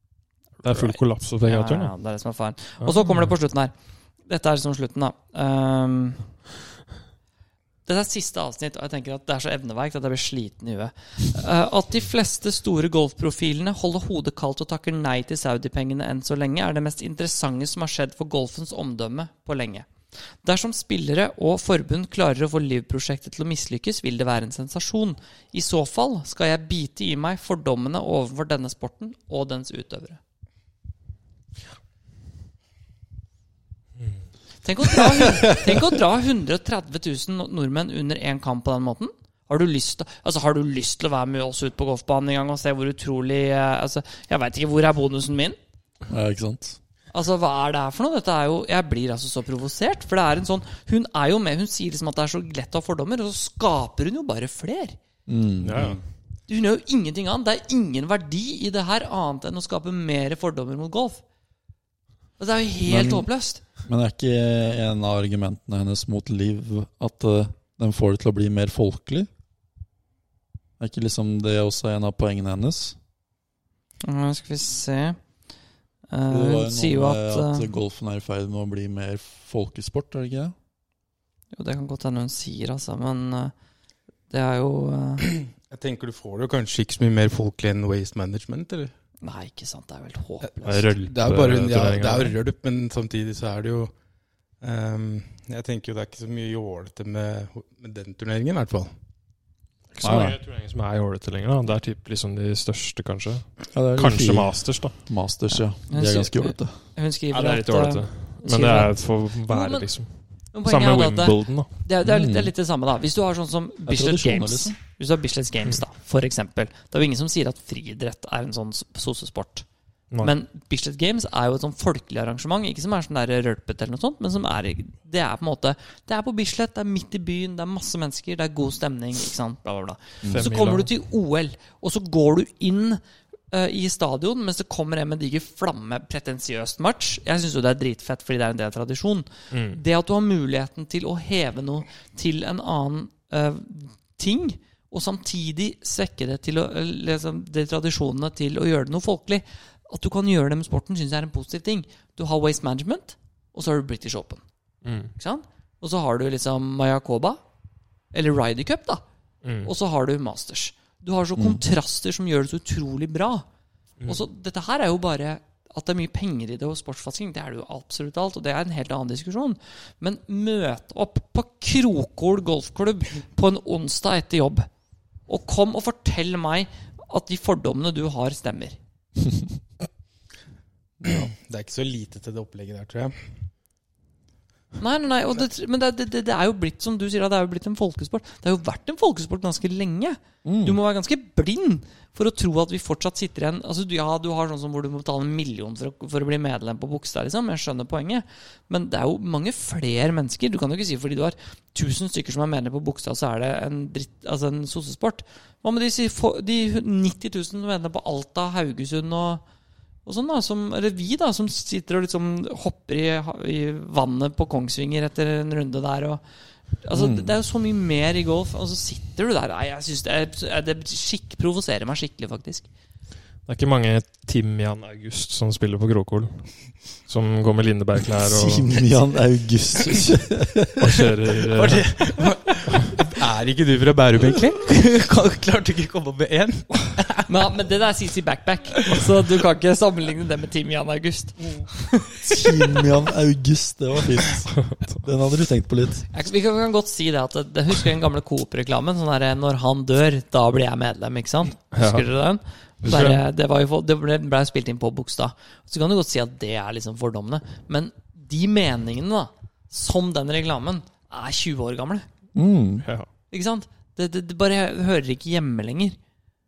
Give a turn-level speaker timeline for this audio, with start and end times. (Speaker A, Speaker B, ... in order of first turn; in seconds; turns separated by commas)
Speaker A: 0.6-1.9, Speaker B: 0.6-3.7, Speaker A: 2.8-3.2, Speaker B: 4.3-6.3, Speaker B: 7.8-30.2, Speaker B: 34.6-45.6, Speaker C: 46.1-46.8, Speaker B: 47.1-55.0, Speaker C: 55.3-56.0, Speaker A: 55.6-56.0, Speaker B: 56.5-61.2, Speaker B: 62.4-63.6, Speaker C: 62.9-63.3, Speaker C: 63.8-69.3, Speaker C: 70.8-73.0, Speaker B: 74.0-75.2, Speaker B: 76.1-77.7, Speaker C: 76.3-80.5, Speaker B: 81.5-83.5, Speaker B: 84.3-85.3, Speaker D: 85.2-88.9, Speaker B: 89.2-90.9, Speaker A: 90.6-92.3, Speaker D: 91.0-93.9, Speaker D: 94.6-98.9, Speaker A: 99.9-104.9, Speaker C: 100.0-100.4, Speaker C: 103.7-106.7, Speaker B: 105.5-109.9, Speaker A: 107.3-110.1, Speaker B: 110.5-119.7, Speaker A: 110.6-111.7, Speaker C: 112.0-112.5, Speaker C: 113.8-114.8, Speaker B: 120.2-154.4, Speaker C: 130.2-130.5, Speaker A: 130.2-130.9, Speaker A: 139.5-139.8, Speaker A: 154.8-155.1, Speaker B: 155.2-157.4, Speaker B: 158.1-159.0, Speaker A: 159.4-159.7, Speaker B: 159.6-163.4, Speaker C: 161.4-161.6, Speaker B: 164.1-174.7, Speaker B: 175.3-178.8, Speaker C: 181.0-181.3, Speaker D: 181.1-183.1, Speaker B: 184.8-209.4, Speaker C: 190.4-190.8, Speaker B: 210.0-216.2, Speaker B: 216.8-222.7, Speaker C: 216.9-217.3, Speaker A: 223.4-228.9, Speaker C: 228.2-231.1, Speaker A: 230.8-231.9, Speaker D: 231.5-237.3, Speaker B: 237.3-242.9, Speaker C: 242.2-246.1, Speaker A: 244.6-244.9, Speaker B: 246.1-262.1, Speaker A: 251.7-252.1, Speaker A: 252.8-253.2, Speaker C: 262.3-262.9, Speaker B: 263.3-266.0